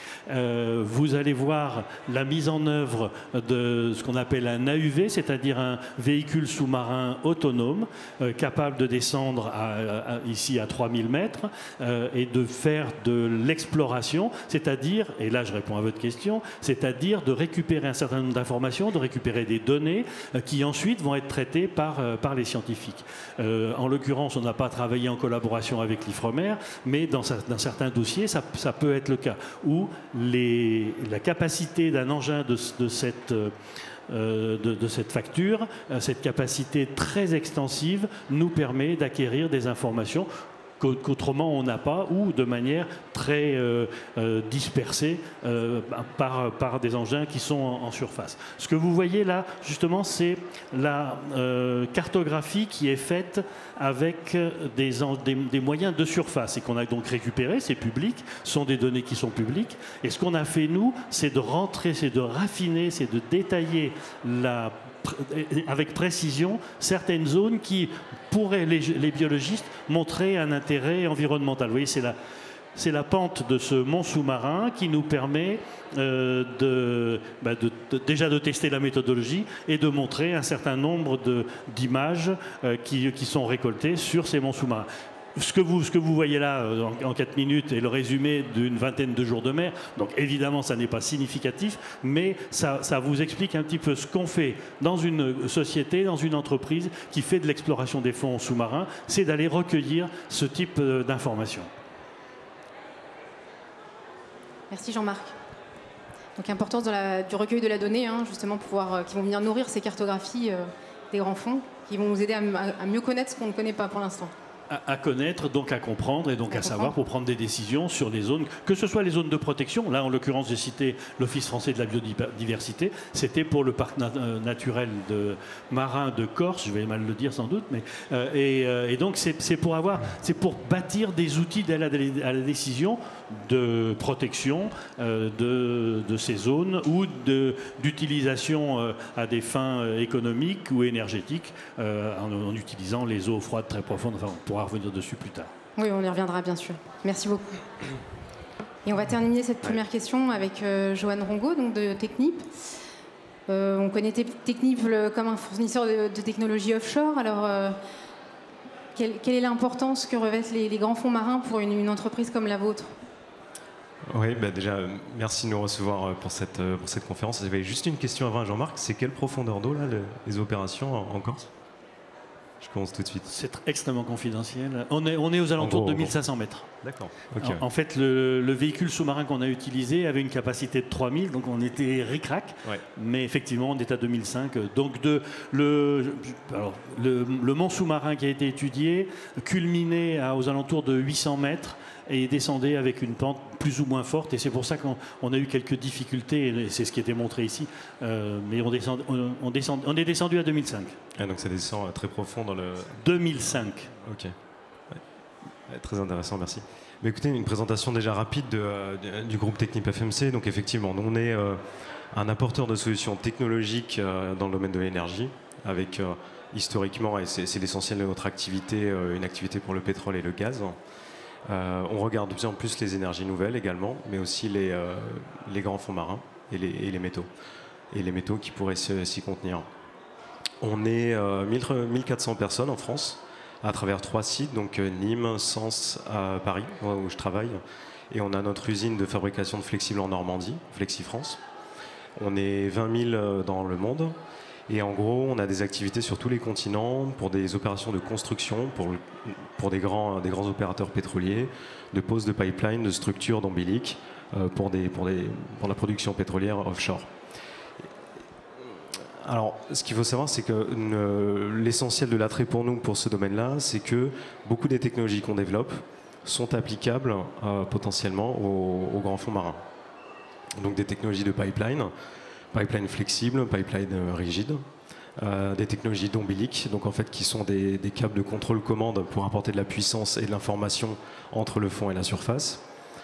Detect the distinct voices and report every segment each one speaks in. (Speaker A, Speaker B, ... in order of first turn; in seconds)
Speaker A: 0.3-33.5, 34.1-40.3, 40.8-72.2, 72.8-101.7, 114.7-145.5, 173.3-176.7, 177.4-201.0, 203.0-203.9
Speaker B: 104.7-105.3, 106.4-114.3, 116.5-116.9, 145.8-147.6, 148.8-152.5, 153.5-157.8, 158.9-162.9
Speaker C: 164.1-171.5, 172.6-173.3, 175.6-176.2, 176.8-177.7, 201.2-203.0, 203.9-204.3, 205.7-211.6, 212.1-220.8, 221.5-227.3, 227.9-229.7, 230.6-237.6, 238.1-241.4, 242.2-244.2, 244.7-257.1, 259.2-269.6, 270.6-271.9, 272.5-274.6, 275.2-282.6